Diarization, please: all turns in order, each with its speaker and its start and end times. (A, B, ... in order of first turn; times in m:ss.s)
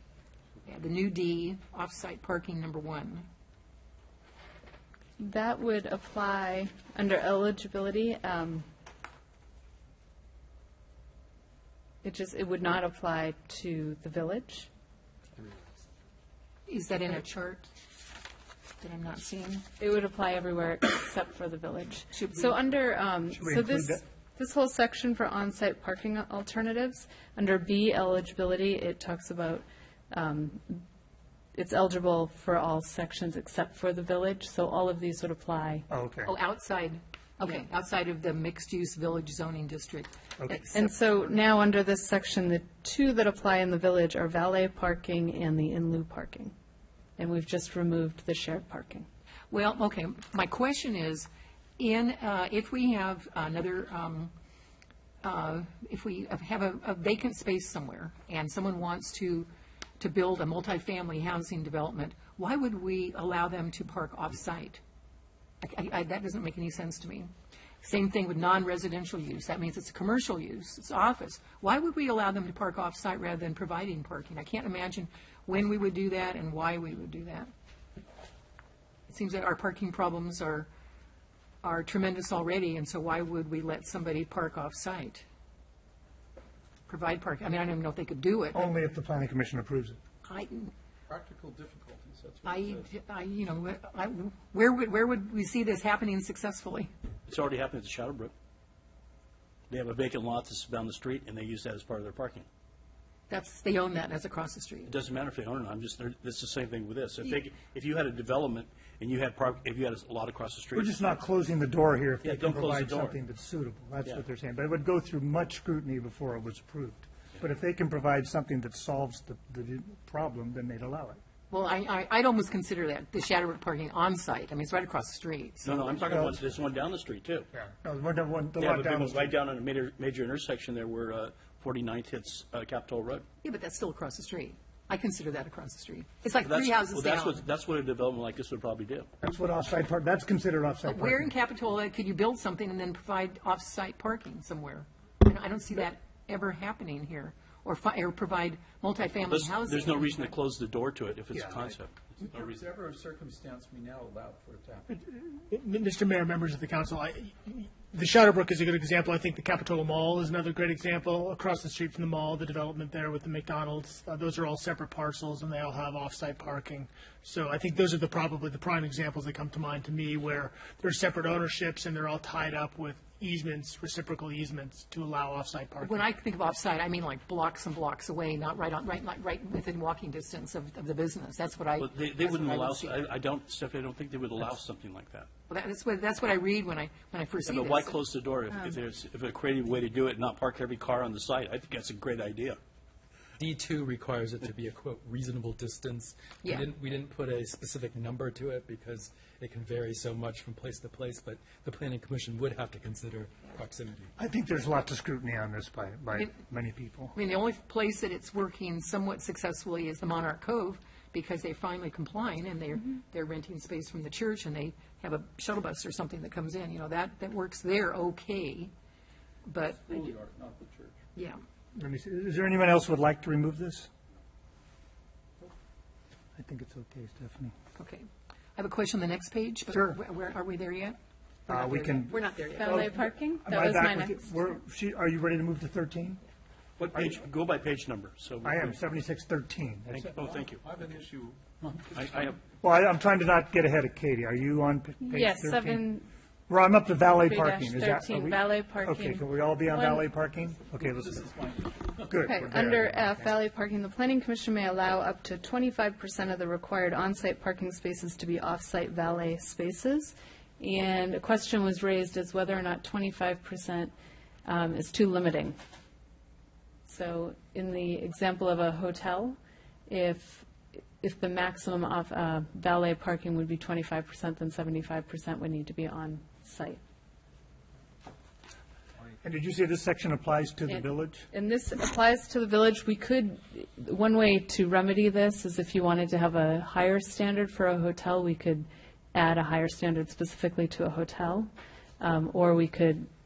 0:00.7-0:03.3 A
0:05.2-0:08.7 B
0:12.0-0:14.7 B
0:16.7-0:17.7 A
0:18.8-0:19.6 A
0:19.8-0:30.8 B
0:22.2-0:22.5 A
0:23.3-0:24.0 C
0:31.6-0:35.9 B
0:35.9-0:36.4 C
0:36.3-0:40.9 A
0:40.4-0:40.7 C
0:40.5-0:46.5 B
0:47.2-0:49.1 B
0:49.5-0:51.3 A
0:51.8-0:54.3 A
0:55.2-0:59.5 A
1:00.0-1:04.8 A
1:05.6-1:07.3 A
1:07.8-1:17.5 A
1:19.1-1:20.7 A
1:21.6-1:25.2 A
1:26.9-1:28.7 A
1:28.5-1:30.0 C
1:30.2-1:30.7 A
1:31.1-1:32.8 D
1:32.4-1:36.9 A
1:37.3-1:38.3 E
1:39.7-1:42.5 E
1:43.3-1:45.0 A
1:44.9-1:51.1 E
1:50.8-2:01.2 C
1:52.2-1:53.2 E
2:01.5-2:06.3 A
2:05.6-2:07.5 E
2:06.1-2:06.5 C
2:07.5-2:09.3 C
2:08.6-2:13.2 E
2:13.4-2:17.4 A
2:16.4-2:19.1 E
2:19.2-2:21.3 C
2:20.9-2:30.3 A
2:29.3-2:32.6 E
2:32.2-2:35.0 D
2:35.3-2:56.1 F
2:55.8-3:03.1 A
3:01.8-3:05.3 E
3:05.5-3:08.0 A
3:07.4-3:12.6 E
3:13.4-3:24.1 G
3:24.2-3:27.1 C
3:27.1-3:38.7 A
3:39.4-3:40.1 A
3:39.9-3:41.0 D
3:41.7-3:43.9 C
3:46.4-3:47.5 C
3:47.8-3:53.0 A
3:49.7-3:50.0 C
3:51.5-3:52.9 C
3:52.6-3:54.3 B
3:53.4-3:56.2 C
3:56.8-3:58.8 E
3:58.4-4:00.1 C
3:59.9-4:00.6 E
4:00.2-4:02.3 D
4:01.9-4:02.4 E
4:02.6-4:05.9 C
4:05.0-4:06.1 B
4:06.5-4:11.3 C
4:07.2-4:10.1 B
4:10.8-4:11.9 D
4:12.0-4:13.3 C
4:12.2-4:23.9 B
4:24.4-4:25.6 B
4:26.9-4:30.5 B
4:31.0-4:36.8 B
4:39.2-4:41.3 C
4:40.7-4:51.5 B
4:52.0-4:53.1 B